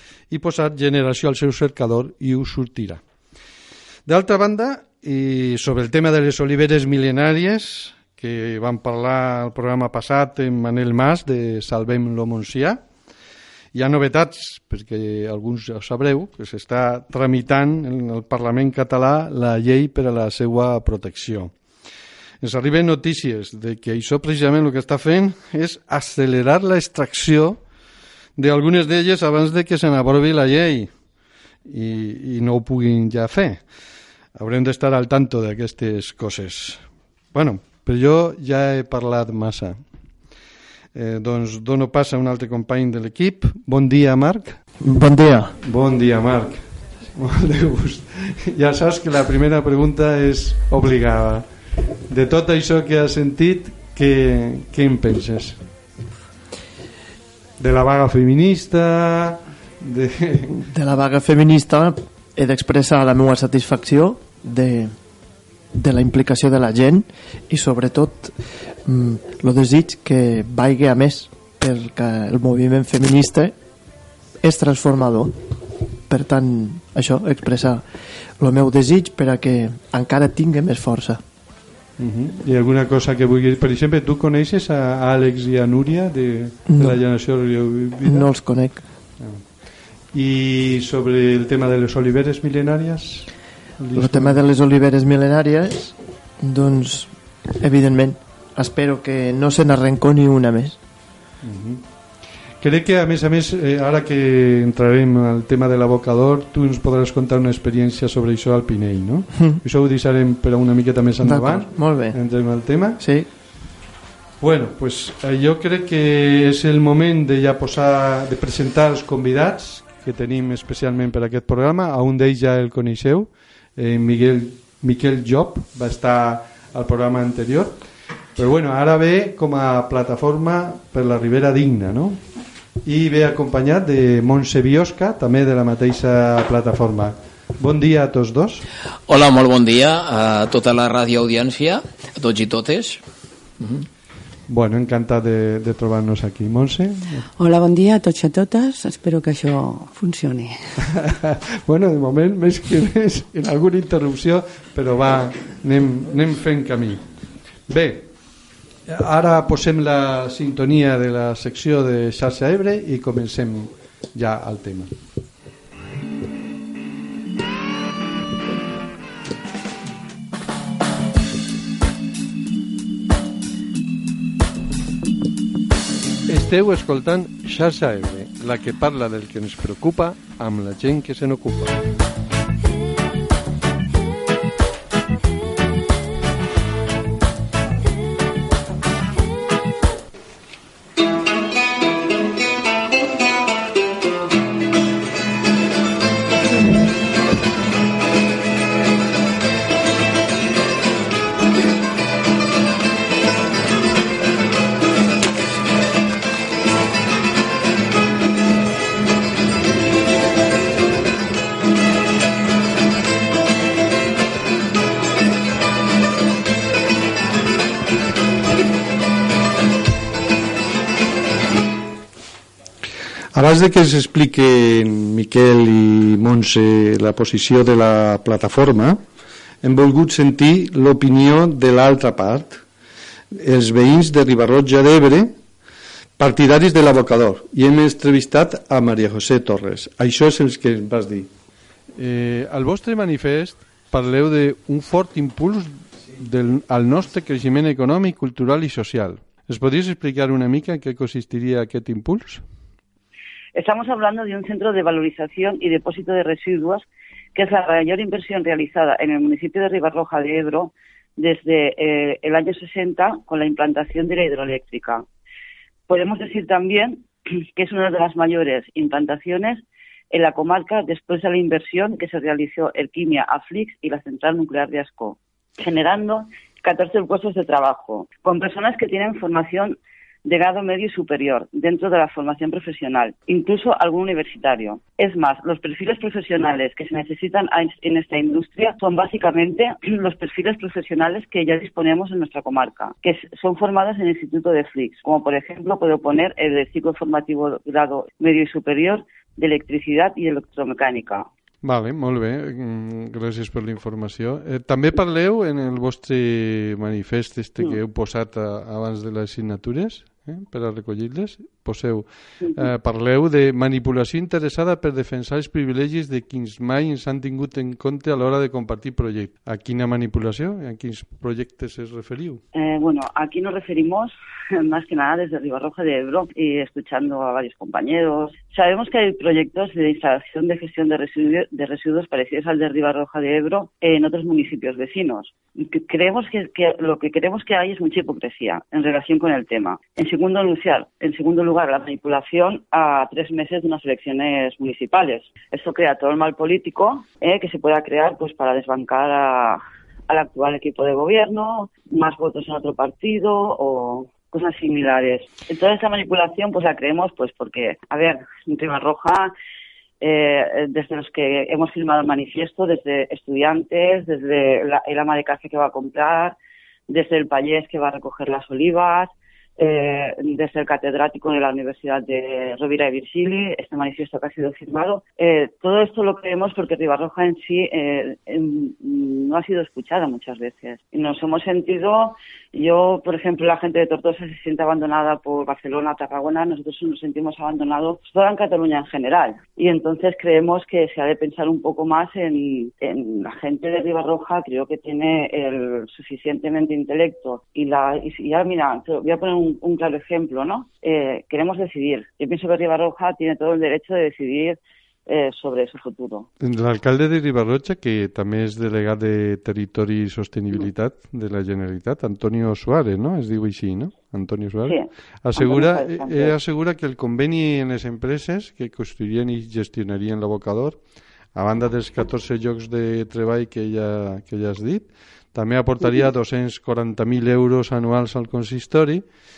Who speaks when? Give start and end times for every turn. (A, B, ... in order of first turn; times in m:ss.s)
0:00.3-0:03.0 A
0:04.0-0:12.8 A
0:13.7-0:21.5 A
0:22.4-0:27.6 A
0:28.4-0:30.9 A
0:31.6-0:33.6 A
0:34.4-0:36.8 A
0:37.3-0:39.8 A
0:40.9-0:44.6 A
0:44.8-0:45.6 B
0:45.6-0:46.6 A
0:47.1-0:51.4 A
0:52.1-0:55.6 A
0:57.6-1:00.6 A
1:00.6-1:04.9 B
1:05.7-1:08.3 B
1:08.9-1:13.5 B
1:14.4-1:15.4 B
1:16.1-1:17.8 B
1:18.4-1:21.2 B
1:22.0-1:28.3 A
1:26.7-1:27.0 B
1:28.0-1:28.8 B
1:29.2-1:29.4 A
1:30.1-1:34.4 A
1:33.9-1:40.8 B
1:41.4-1:41.8 A
1:42.6-1:53.0 A
1:51.2-1:52.2 B
1:53.0-1:53.3 B
1:54.4-2:07.8 A
2:08.4-2:12.2 A
2:12.8-2:18.6 A
2:19.1-2:23.0 C
2:23.6-2:23.9 C
2:24.5-2:27.3 A
2:27.4-2:30.8 D
2:30.9-2:37.0 A
2:37.7-2:38.1 A
2:38.9-2:44.9 A
2:56.3-3:01.8 A
3:43.3-3:49.0 A
3:49.6-3:52.6 A
3:53.3-3:55.3 A
3:56.2-4:01.3 A
4:01.9-4:12.4 A
4:13.5-4:25.0 E
4:25.9-5:01.3 E
5:01.6-5:22.4 A
5:22.5-5:59.3 E
6:00.0-6:06.4 E
6:06.9-6:46.3 E
6:46.4-7:00.8 A
6:54.7-6:56.3 E
7:01.3-7:09.0 A